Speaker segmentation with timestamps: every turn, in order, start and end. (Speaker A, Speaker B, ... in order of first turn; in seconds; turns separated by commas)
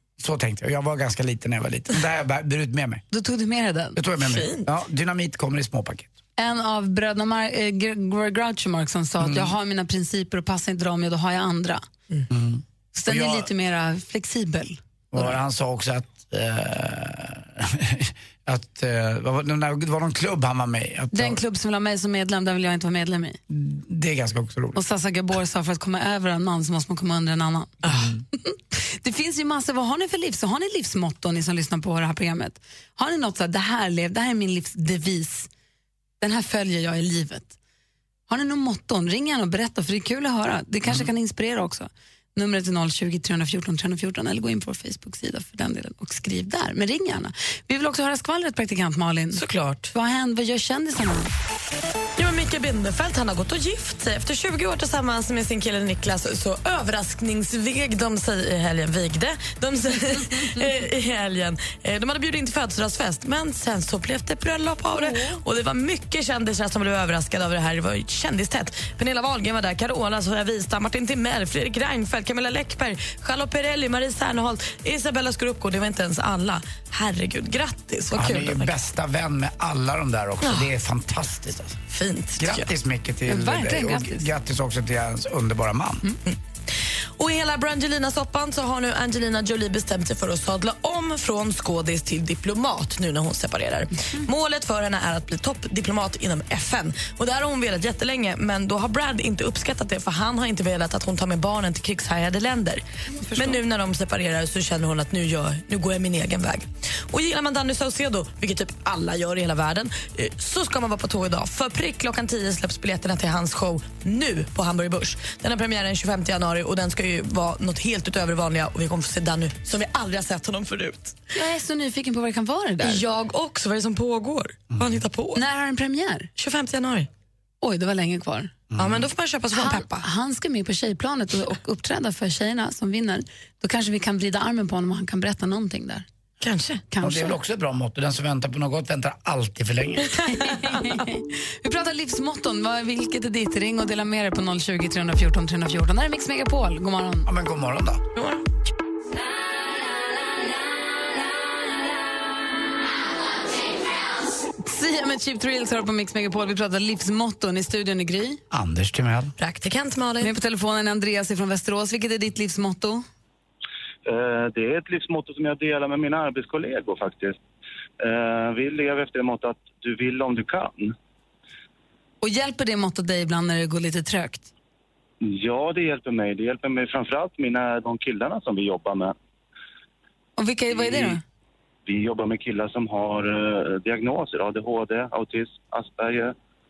Speaker A: 0.2-3.0, Speaker B: 3.1-4.0, Speaker A: 4.0-6.1, Speaker C: 4.2-4.7, Speaker B: 6.4-11.8, Speaker A: 9.2-9.5, Speaker A: 12.3-13.5, Speaker B: 12.9-15.3, Speaker A: 15.1-21.4, Speaker B: 21.1-23.4, Speaker A: 23.5-24.8, Speaker B: 24.8-27.9, Speaker A: 27.9-28.2, Speaker B: 28.4-35.5, Speaker B: 36.2-37.5, Speaker B: 38.3-51.3, Speaker C: 49.3-49.9, Speaker C: 52.2-78.7, Speaker B: 65.0-65.4, Speaker A: 78.1-81.8, Speaker C: 80.4-80.7, Speaker C: 81.9-82.7, Speaker A: 82.4-86.0, Speaker B: 83.3-84.3, Speaker C: 86.3-121.2, Speaker B: 103.2-103.6, Speaker B: 121.3-123.0, Speaker C: 122.8-125.4, Speaker B: 125.3-126.3, Speaker C: 126.4-127.1, Speaker B: 127.6-128.5, Speaker A: 128.7-129.1, Speaker C: 128.8-130.1, Speaker B: 129.5-136.1, Speaker C: 136.4-136.8, Speaker B: 136.9-137.3, Speaker A: 137.0-140.1, Speaker B: 140.3-147.3, Speaker A: 147.3-148.0, Speaker C: 148.2-148.5, Speaker B: 154.6-158.4, Speaker A: 158.5-159.3, Speaker C: 159.4-160.4, Speaker B: 160.2-163.0, Speaker D: 164.1-167.4, Speaker D: 168.0-170.9, Speaker B: 172.2-174.5, Speaker D: 175.2-179.2, Speaker B: 180.4-181.2, Speaker D: 180.7-181.2, Speaker D: 181.9-186.3